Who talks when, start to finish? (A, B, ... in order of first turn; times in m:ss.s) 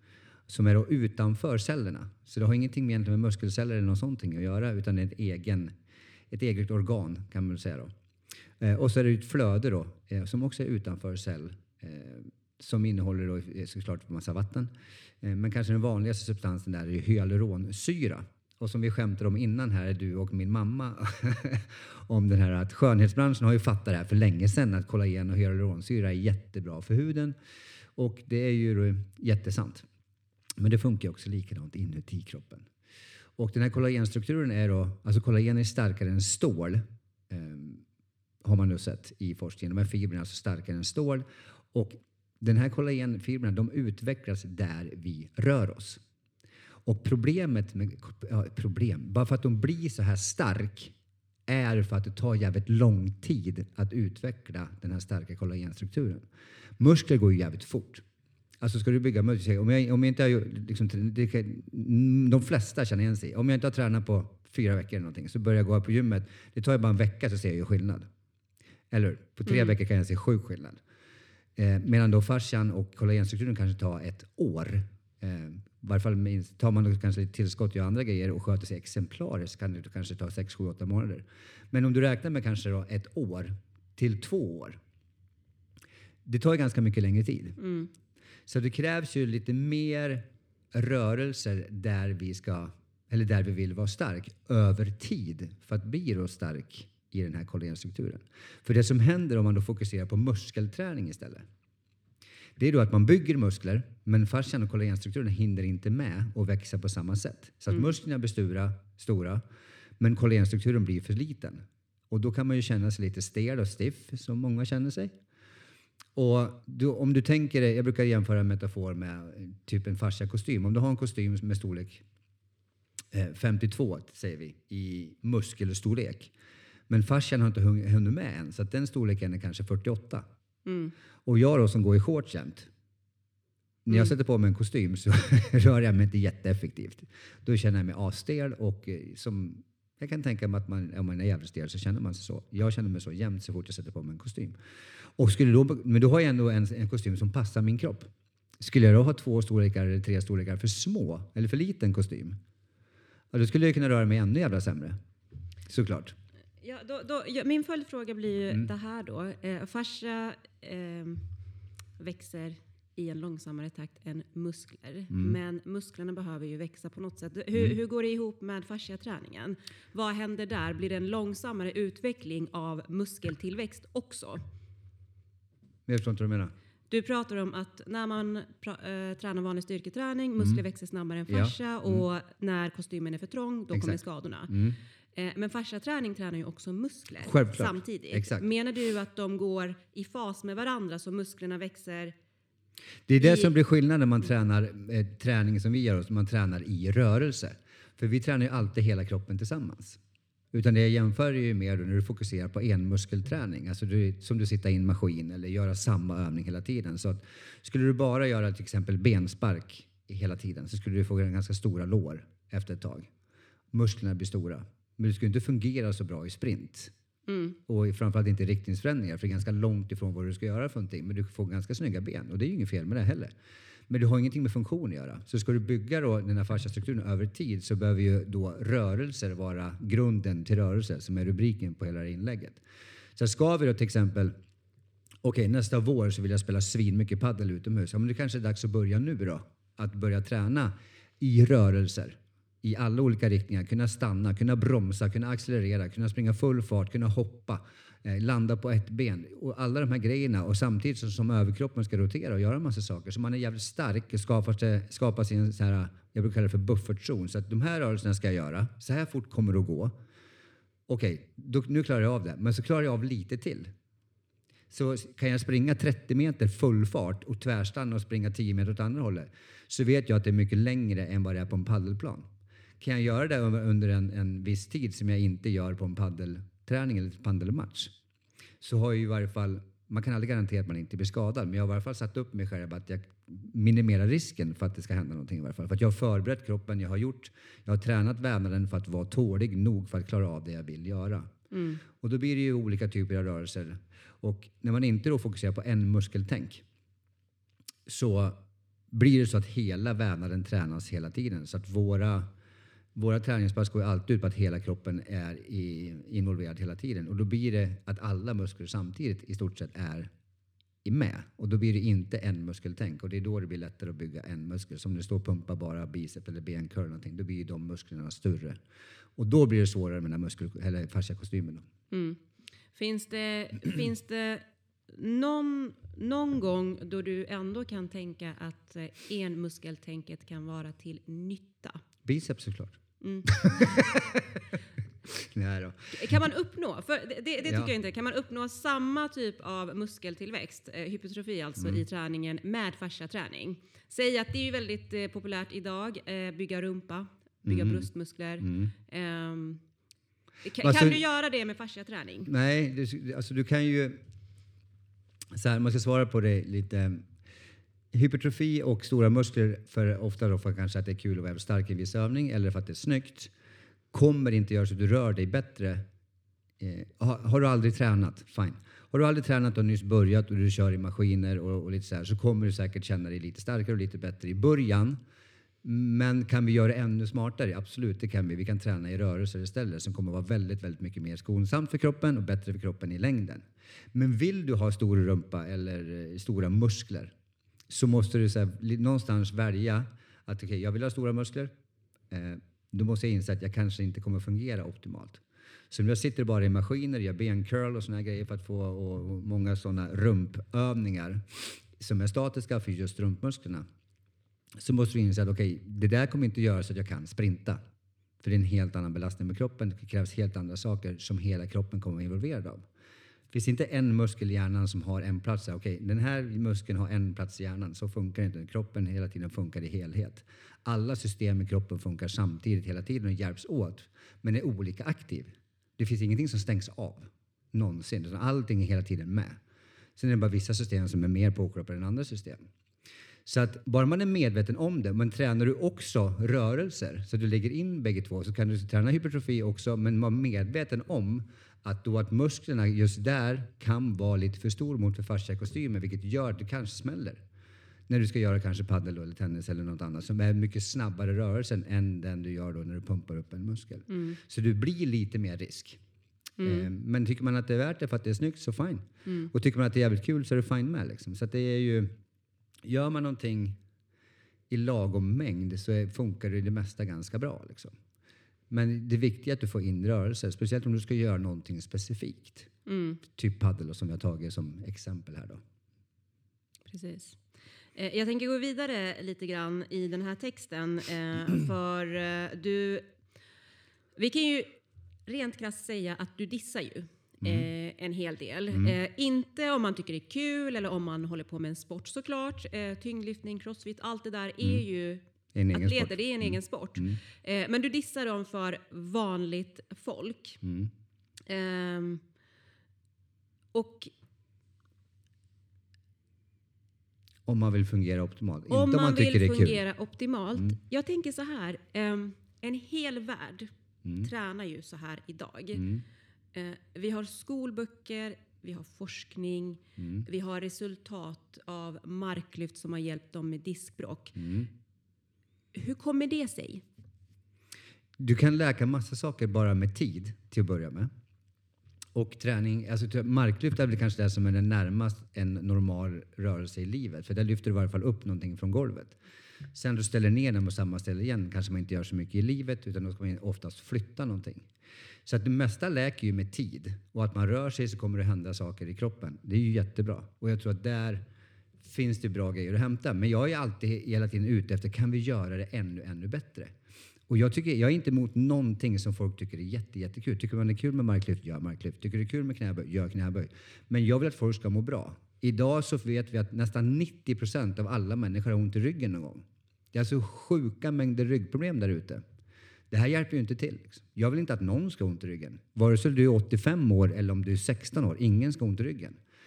0:00.5-0:05.7 A
0:06.3-0:07.9 A
0:08.6-0:14.7 A
0:15.2-0:27.4 A
0:28.0-0:29.9 A
0:30.6-0:32.7 A
0:33.4-0:37.8 A
0:38.4-0:46.0 A
0:46.9-0:50.9 A
0:51.5-0:56.2 A
0:56.8-0:58.0 A
0:58.6-1:08.1 A
1:08.9-1:10.8 A
1:09.5-1:09.7 B
1:11.6-1:24.8 A
1:26.3-1:27.6 A
1:27.6-1:27.9 B
1:28.5-1:41.5 A
1:42.6-1:49.4 A
1:50.0-1:55.1 A
1:56.2-2:02.0 A
2:03.1-2:06.3 A
2:06.9-2:10.2 A
2:10.6-2:10.9 B
2:11.3-2:12.7 A
2:13.8-2:24.6 A
2:25.2-2:28.1 A
2:28.6-2:32.4 A
2:33.3-2:35.0 A
2:35.7-2:36.2 A
2:36.6-2:41.3 B
2:42.0-2:54.4 B
2:45.1-2:45.4 A
2:55.9-2:56.5 A
2:56.9-3:04.5 B
3:01.3-3:02.0 A
3:03.7-3:04.8 A
3:05.2-3:12.2 B
3:07.2-3:08.5 A
3:13.1-3:20.0 A
3:13.2-3:13.5 B
3:20.5-3:33.1 A
3:33.7-3:36.9 A
3:37.3-3:37.6 B
3:37.7-3:43.3 A
3:43.9-3:52.6 A
3:53.2-3:54.3 A
3:55.2-4:19.9 A
4:20.9-4:23.7 A
4:24.7-4:32.3 A
4:32.8-4:37.9 A
4:38.6-4:51.3 A
4:51.5-4:51.8 B
4:52.0-4:56.6 A
4:57.9-4:58.4 A
4:58.9-5:02.3 A
5:03.0-5:10.1 A
5:10.8-5:18.6 A
5:19.2-5:21.7 A
5:21.9-5:22.2 B
5:22.7-5:31.8 B
5:32.0-5:34.4 A
5:33.0-5:33.7 B
5:35.2-5:36.2 A
5:35.9-5:49.6 B
5:37.5-5:37.7 A
5:47.4-5:47.9 A
5:48.4-5:48.7 A
5:50.4-5:52.3 B
5:50.6-5:51.0 A
5:52.3-5:54.0 A
5:55.3-5:57.0 A
5:57.9-6:03.3 A
6:03.9-6:05.8 A
6:06.6-6:15.0 A
6:15.6-6:27.1 A
6:27.7-6:31.5 A
6:32.1-6:43.7 A
6:44.6-6:47.6 A
6:48.2-6:52.6 A
6:53.3-7:09.4 A
7:10.0-7:12.4 A
7:13.2-7:27.2 A
7:27.9-7:35.8 A
7:33.9-7:34.2 B
7:36.4-7:36.7 B
7:36.4-7:41.9 A
7:42.7-7:43.6 A
7:44.5-7:47.7 A
7:48.5-7:52.5 A
7:52.7-7:53.0 B
7:53.1-7:55.4 A
7:56.7-7:57.2 B
7:57.8-8:02.9 B
8:04.0-8:04.5 B
8:05.1-8:20.4 B
8:07.2-8:07.5 A
8:15.3-8:17.0 A
8:20.4-8:20.7 A
8:21.3-8:22.0 B
8:23.5-8:23.9 B
8:27.3-8:29.6 A
8:28.5-8:35.7 B
8:35.6-8:35.8 A
8:36.3-8:44.2 B
8:39.8-8:40.1 A
8:44.2-8:44.5 A
8:45.5-8:46.6 B
8:48.0-8:50.9 A
8:52.0-8:59.0 A
8:59.5-9:04.4 A
9:05.1-9:11.0 A
9:11.6-9:16.5 A
9:17.1-9:32.0 A
9:32.7-9:39.0 A